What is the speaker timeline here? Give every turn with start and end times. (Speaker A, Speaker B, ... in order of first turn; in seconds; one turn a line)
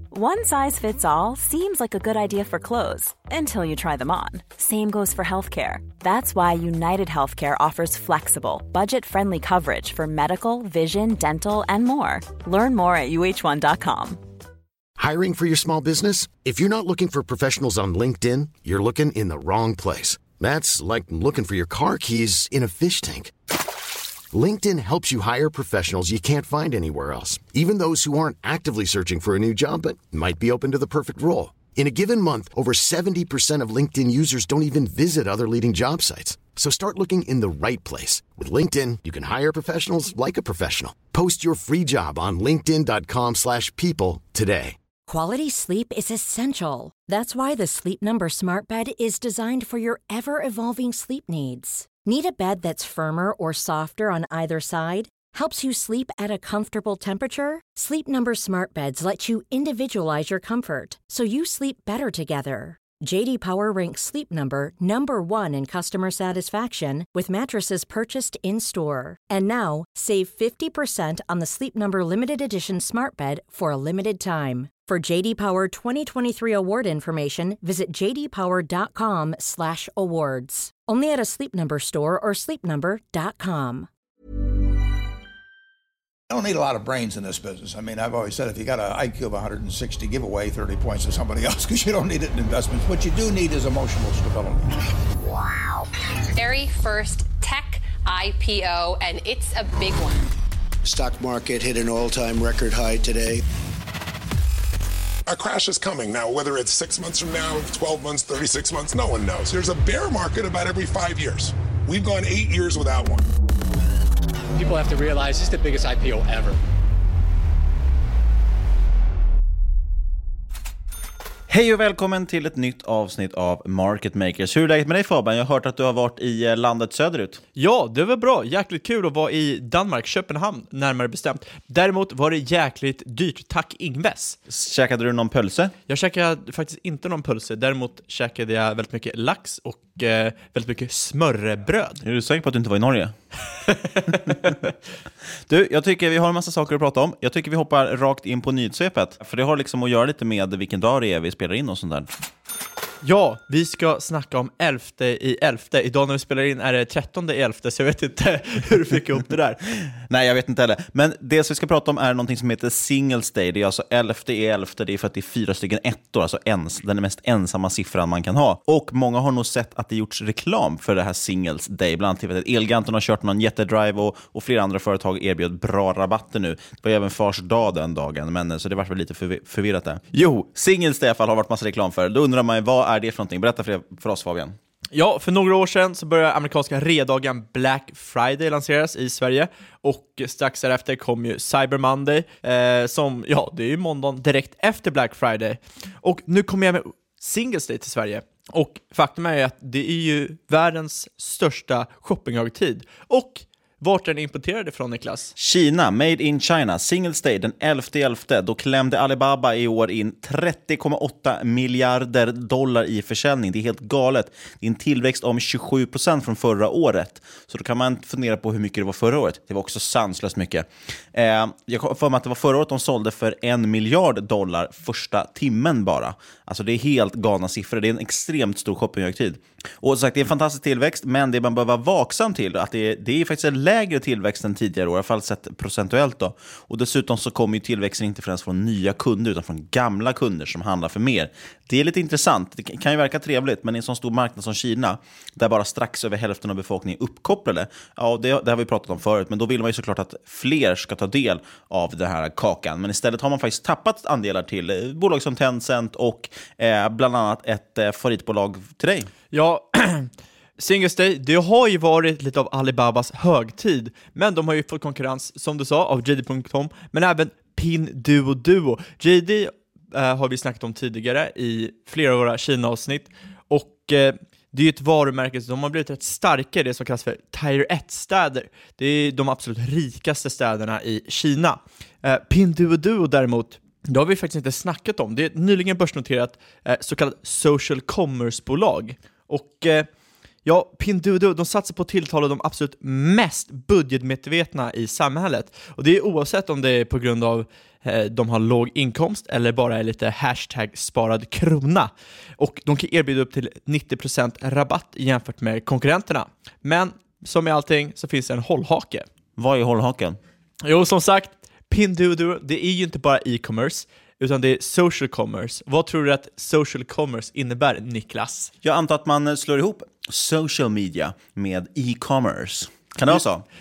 Speaker A: 0.1-14.2
Speaker B: 15.0-23.3
Speaker B: 24.3-44.8
Speaker C: 45.1-83.9
Speaker D: 86.3-94.7
Speaker E: 96.4-100.2
Speaker F: 100.8-103.4
Speaker G: 105.3-113.3
Speaker H: 114.5-116.6
Speaker I: 121.5-127.4
Speaker J: 127.6-134.4
Speaker I: 134.5-135.7
Speaker J: 135.9-142.0
Speaker I: 142.0-143.2
Speaker J: 143.7-144.6
Speaker I: 145.5-152.1
Speaker J: 153.0-159.6
Speaker I: 159.8-184.6
Speaker J: 184.9-205.3
Speaker I: 205.4-259.1
Speaker J: 259.3-289.9
Speaker J: 290.4-309.1
Speaker I: 309.4-310.2
Speaker J: 310.6-318.5
Speaker I: 318.6-323.4